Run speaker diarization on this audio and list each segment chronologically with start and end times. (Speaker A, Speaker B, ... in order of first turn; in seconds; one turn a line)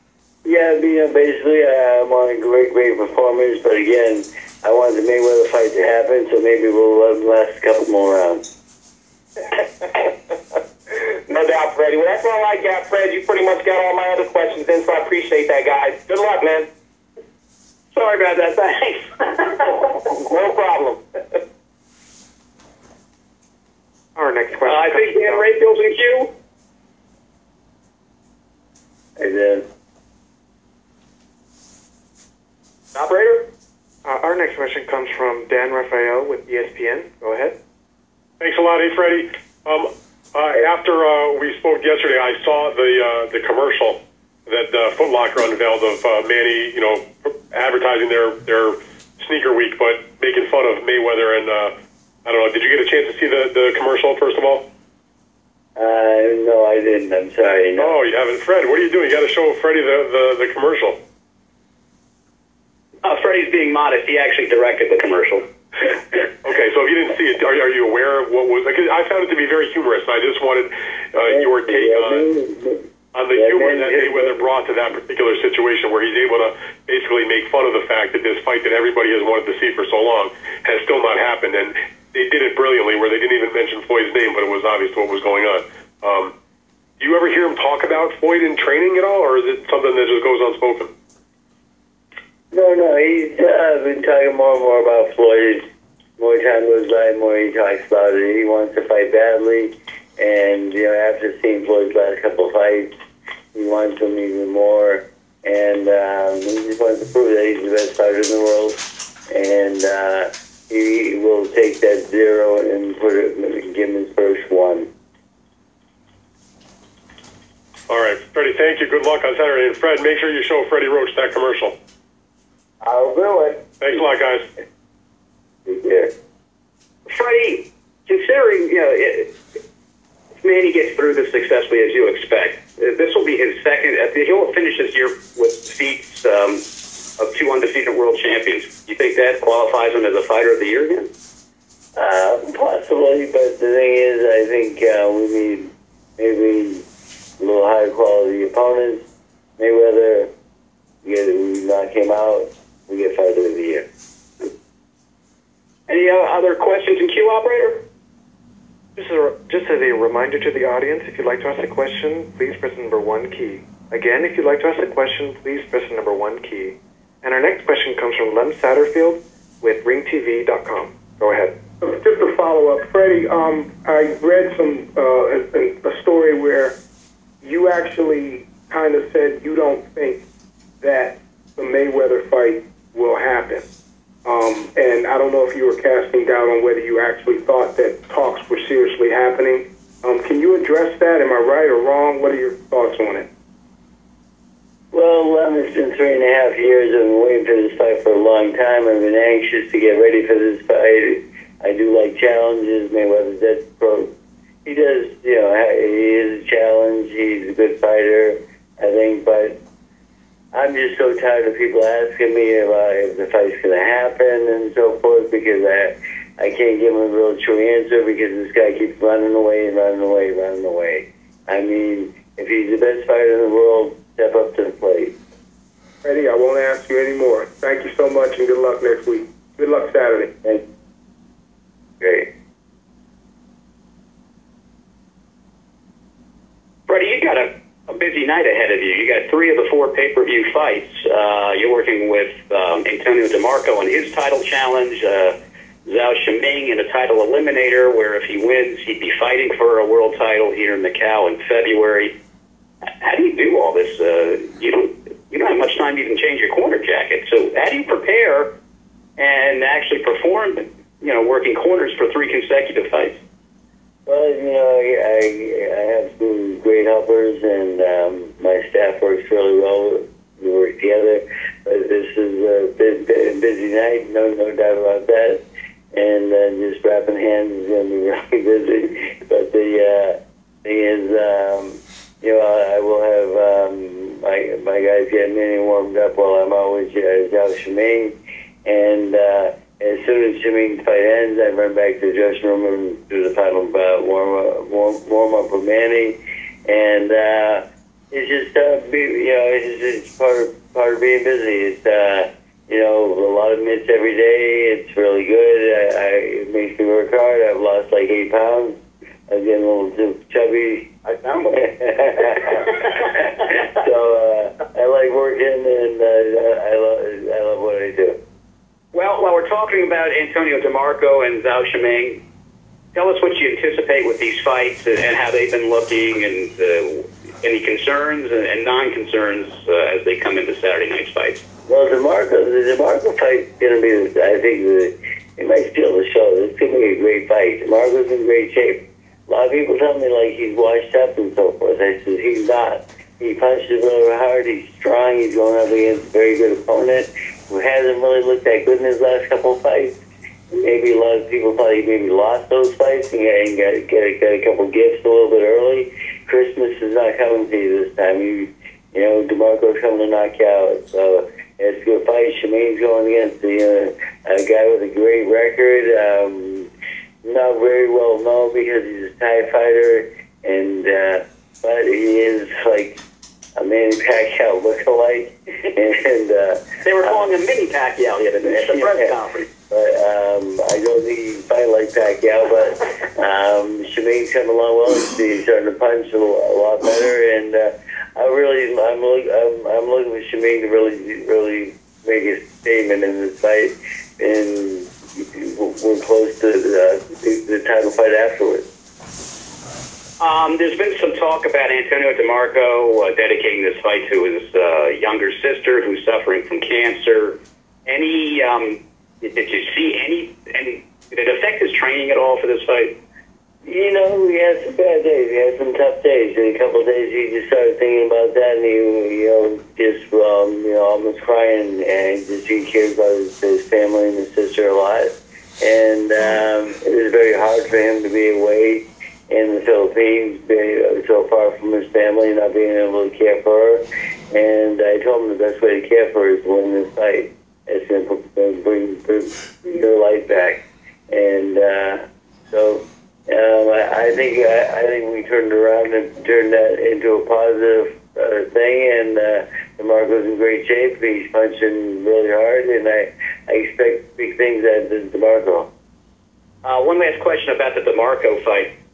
Speaker A: 0.4-8.4
Speaker B: 9.4-10.1
Speaker B: 11.3-16.7
Speaker C: 17.9-19.8
Speaker B: 19.9-21.4
Speaker D: 24.2-25.5
Speaker C: 24.7-26.3
Speaker A: 29.2-29.7
Speaker C: 32.9-33.5
Speaker D: 34.0-37.5
Speaker E: 38.4-51.7
Speaker E: 52.2-54.7
Speaker A: 55.8-58.0
Speaker E: 57.8-61.0
Speaker C: 63.0-65.4
Speaker E: 66.4-72.3
Speaker A: 71.2-72.8
Speaker E: 73.2-86.3
Speaker A: 73.3-74.5
Speaker E: 87.0-90.9
Speaker A: 92.5-95.6
Speaker A: 96.2-102.9
Speaker A: 103.5-114.9
Speaker E: 117.9-121.8
Speaker A: 122.8-123.8
Speaker E: 123.8-124.5
Speaker A: 125.7-126.1
Speaker C: 127.1-129.3
Speaker C: 130.4-136.6
Speaker C: 137.2-141.1
Speaker A: 142.0-146.8
Speaker A: 147.4-149.1
Speaker A: 149.6-150.3
Speaker A: 151.0-153.9
Speaker C: 155.9-157.8
Speaker D: 159.0-171.6
Speaker F: 171.8-176.8
Speaker F: 177.4-180.2
Speaker F: 180.8-183.7
Speaker F: 184.2-193.3
Speaker A: 194.9-204.1
Speaker A: 204.7-209.6
Speaker A: 210.5-225.2
Speaker F: 226.0-230.3
Speaker A: 232.0-232.3
Speaker C: 236.9-252.1
Speaker C: 253.0-258.5
Speaker C: 259.2-263.2
Speaker A: 264.1-275.4
Speaker A: 275.9-310.9
Speaker C: 311.1-313.7
Speaker A: 311.5-318.2
Speaker C: 318.9-322.2
Speaker C: 322.9-331.4
Speaker A: 331.7-366.7
Speaker A: 367.2-373.0
Speaker A: 373.6-377.3
Speaker C: 376.8-379.5
Speaker A: 378.5-379.2
Speaker A: 379.7-398.7
Speaker C: 400.2-412.9
Speaker A: 413.6-455.7
Speaker C: 456.6-458.7